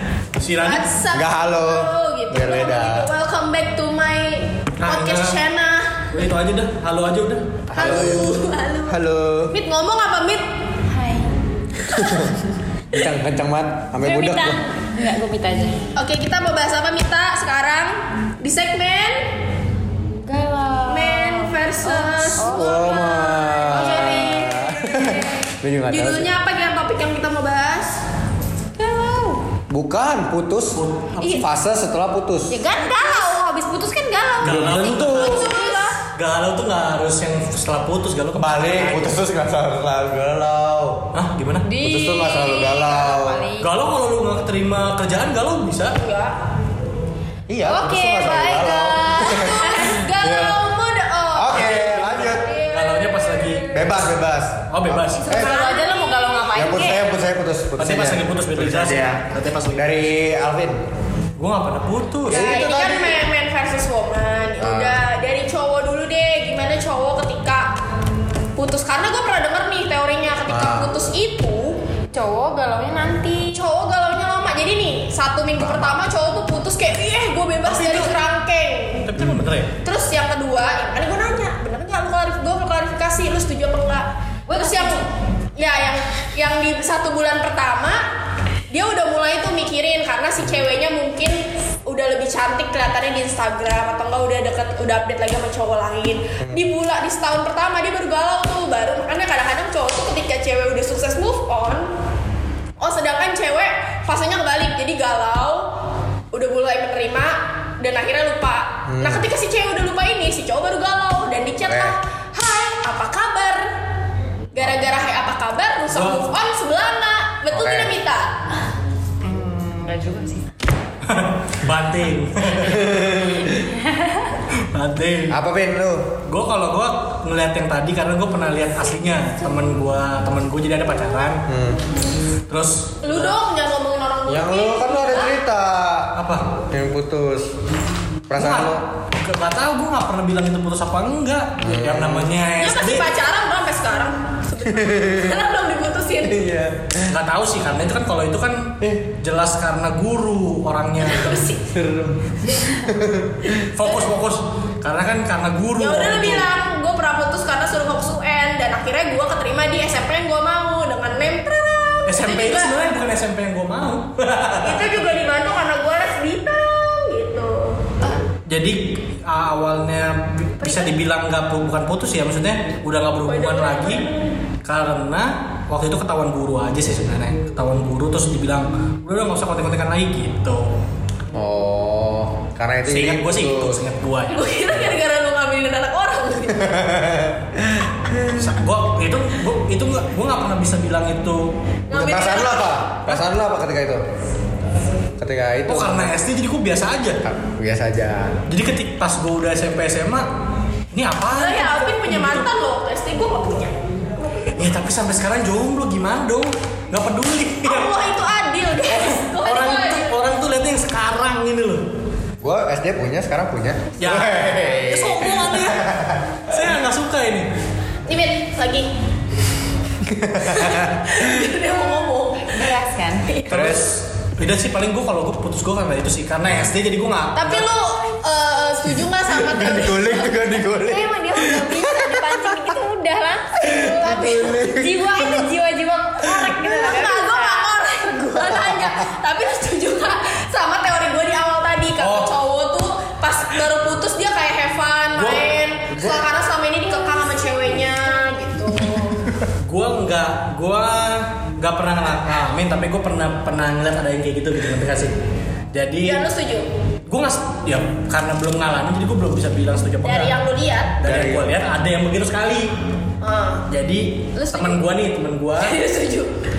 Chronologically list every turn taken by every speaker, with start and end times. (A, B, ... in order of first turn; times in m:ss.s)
0:00.4-0:00.9 A
0:00.6-0:06.0 B
0:01.1-0:03.1 C
0:04.8-0:05.4 A
0:06.1-0:07.6 A
0:07.7-0:08.3 C
0:07.7-0:09.0 B
0:08.9-0:09.5 C
0:09.5-0:10.5 B
0:10.9-0:11.2 D
0:11.8-0:12.3 B
0:11.9-0:12.4 C
0:12.9-0:14.6 C
0:14.0-0:15.8 D
0:16.0-0:19.3 B
0:20.2-0:24.3 D
0:20.9-0:25.2 B
0:22.4-0:26.3 C
0:25.9-0:28.0 B
0:28.8-0:29.4 D
0:29.7-0:32.6 C
0:30.8-0:31.5 A
0:32.5-0:35.9 D
0:34.4-0:35.3 A
0:34.4-0:35.5 C
0:35.1-0:36.0 B
0:36.1-0:39.2 A
0:38.3-0:41.1 C
0:41.1-0:41.6 A
0:41.6-0:43.7 D
0:41.8-0:43.4 C
0:43.6-0:46.0 A
0:46.0-0:46.4 B
0:47.5-0:50.6 C
0:47.6-0:49.8 D
0:49.2-0:53.3 B
0:51.3-0:52.5 C
0:52.7-0:53.6 A
0:53.7-0:55.5 C
0:54.7-0:55.4 A
0:55.2-0:57.0 D
0:55.3-0:56.5 B
0:56.5-1:00.8 C
0:57.8-1:00.0 A
1:01.4-1:02.5 A
1:02.2-1:03.2 C
1:02.3-1:07.7 B
1:04.6-1:05.0 C
1:08.6-1:11.8 B
1:10.5-1:10.9 C
1:12.1-1:13.6 D
1:13.5-1:19.1 B
1:15.6-1:16.0 C
1:17.6-1:18.2 A
1:19.0-1:19.7 A
1:19.8-1:28.0 B
1:24.5-1:25.0 D
1:28.7-1:41.9 B
1:36.4-1:36.7 C
1:42.8-1:45.7 B
1:46.3-1:53.7 B
1:48.9-1:49.3 C
1:51.6-1:51.9 C
1:54.5-1:58.3 B
1:55.9-1:56.3 A
1:57.5-1:58.0 C
1:59.2-2:00.4 D
2:01.0-2:03.1 A
2:02.6-2:03.7 C
2:03.6-2:04.3 D
2:04.5-2:05.4 A
2:05.3-2:06.1 C
2:06.3-2:11.4 A
2:11.5-2:11.8 C
2:12.5-2:13.4 A
2:13.0-2:15.4 B
2:14.3-2:16.1 C
2:16.2-2:16.4 A
2:16.7-2:17.5 C
2:18.3-2:18.8 C
2:18.4-2:23.0 A
2:21.6-2:22.3 C
2:22.6-2:26.4 B
2:24.7-2:25.4 C
2:26.2-2:27.2 C
2:27.0-2:31.5 A
2:31.0-2:31.6 B
2:31.7-2:33.6 C
2:33.6-2:36.5 A
2:35.8-2:42.8 B
2:42.1-2:44.9 A
2:44.6-2:48.2 B
2:48.5-2:54.0 A
2:50.6-2:50.9 B
2:53.2-2:54.1 B
2:54.6-3:00.6 A
3:01.3-3:03.8 C
3:02.8-3:04.4 A
3:04.3-3:06.9 B
3:06.6-3:08.5 C
3:08.3-3:11.5 A
3:11.9-3:12.9 B
3:11.9-3:14.0 C
3:15.2-3:16.1 C
3:15.6-3:17.2 A
3:17.2-3:18.3 C
3:18.5-3:20.3 A
3:20.9-3:22.5 A
3:21.4-3:23.7 B
3:24.5-3:27.9 A
3:27.6-3:30.2 B
3:28.9-3:31.8 A
3:32.4-3:36.7 C
3:34.0-3:35.9 A
3:36.5-3:37.5 A
3:38.1-3:38.9 B
3:40.0-3:41.4 C
3:40.4-3:42.7 B
3:42.5-3:43.3 D
3:43.3-3:43.8 B
3:43.5-3:43.9 C
3:43.5-3:47.6 A
3:47.4-3:50.4 B
3:49.4-3:52.5 C
3:50.6-3:57.7 D
3:53.6-3:55.4 C
3:53.6-3:54.5 B
3:56.2-4:09.2 B
3:58.5-3:58.9 C
4:02.0-4:02.3 A
4:05.2-4:06.2 A
4:09.6-4:15.1 A
4:15.7-4:16.2 A
4:16.0-4:16.7 B
4:17.1-4:20.4 A
4:20.0-4:21.0 B
4:21.0-4:22.7 A
4:21.0-4:21.5 C
4:23.2-4:23.6 B
4:23.7-4:25.8 A
4:24.4-4:24.8 B
4:25.6-4:26.3 B